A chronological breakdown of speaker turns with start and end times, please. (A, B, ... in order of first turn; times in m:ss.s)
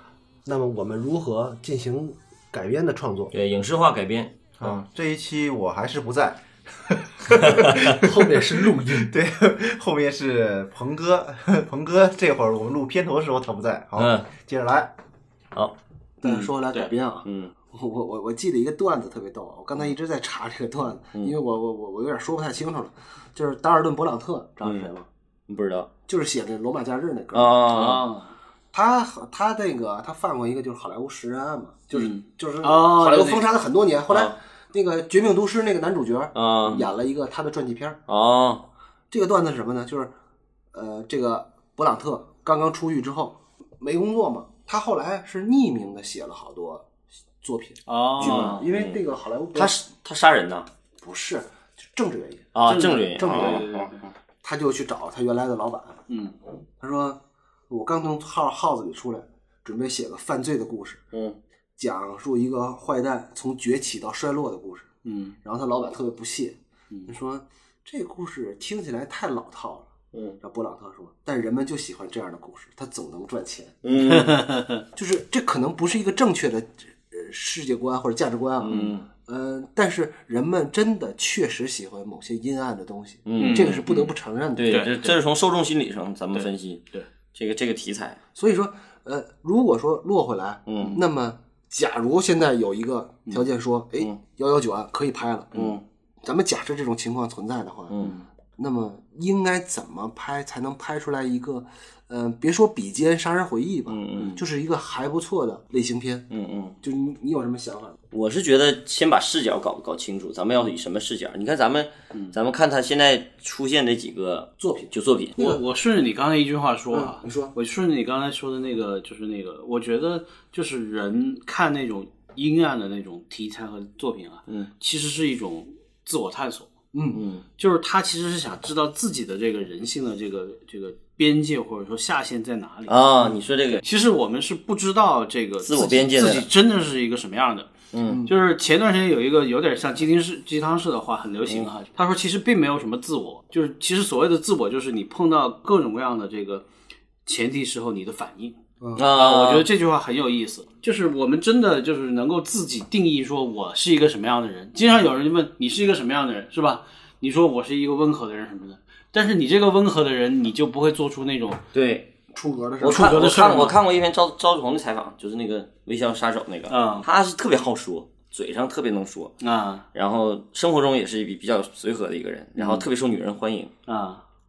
0:00.4-0:03.3 A
0:03.3-0:04.5 B
0:04.6-0:08.3 C
0:07.4-0:08.0 B
0:07.8-0:09.1 A
0:08.9-0:14.9 C
0:14.0-0:14.3 B
0:16.2-0:25.1 A
0:16.2-0:16.9 D
0:17.2-0:17.5 B
0:24.6-0:24.9 B
0:25.5-0:25.9 B
0:26.1-0:27.6 A
0:27.3-0:28.0 B
0:27.7-0:28.3 D
0:28.7-0:38.0 A
0:32.0-0:33.4 D
0:34.1-0:34.4 B
0:36.4-0:36.9 B
0:38.1-0:38.7 B
0:39.1-0:40.1 A
0:40.7-0:46.9 A
0:47.4-0:49.8 A
0:47.9-0:48.6 D
0:48.2-0:49.0 B
0:49.5-0:50.7 B
0:51.0-0:52.6 A
0:52.5-0:53.9 B
0:52.7-0:54.1 D
0:53.1-0:53.7 A
0:54.4-0:56.0 A
0:56.1-0:56.4 D
0:56.8-1:01.0 A
1:01.1-1:01.4 B
1:01.8-1:04.9 A
1:05.0-1:05.4 D
1:05.4-1:09.9 A
1:10.1-1:10.4 B
1:10.4-1:13.8 A
1:13.8-1:14.4 B
1:14.0-1:14.8 D
1:15.0-1:24.8 A
1:18.6-1:19.0 B
1:18.7-1:19.0 D
1:23.3-1:23.9 B
1:23.4-1:24.1 D
1:24.6-1:26.8 B
1:24.7-1:25.2 D
1:26.3-1:27.1 D
1:27.3-1:28.2 B
1:28.4-1:35.6 A
1:30.7-1:31.0 B
1:35.5-1:35.8 B
1:36.2-1:38.0 A
1:37.9-1:38.2 B
1:38.6-1:46.3 A
1:43.9-1:44.4 B
1:46.3-1:46.8 B
1:46.8-1:48.0 A
1:48.1-1:55.4 B
1:54.6-1:55.6 A
1:55.4-2:06.7 D
1:56.9-1:57.6 A
2:06.9-2:07.2 A
2:07.1-2:07.4 B
2:07.6-2:13.0 D
2:12.9-2:13.8 B
2:13.8-2:17.7 D
2:15.6-2:16.5 B
2:17.9-2:18.2 B
2:18.0-2:18.3 A
2:18.3-2:26.7 D
2:27.3-2:28.6 D
2:28.8-2:29.1 A
2:29.0-2:29.7 B
2:29.1-2:41.6 D
2:41.7-2:42.1 B
2:42.3-2:43.3 A
2:42.8-2:49.4 B
2:42.9-2:43.8 D
2:46.7-2:47.1 D
2:49.4-2:49.8 D
2:49.9-2:53.7 B
2:52.6-2:52.9 D
2:53.9-2:54.2 D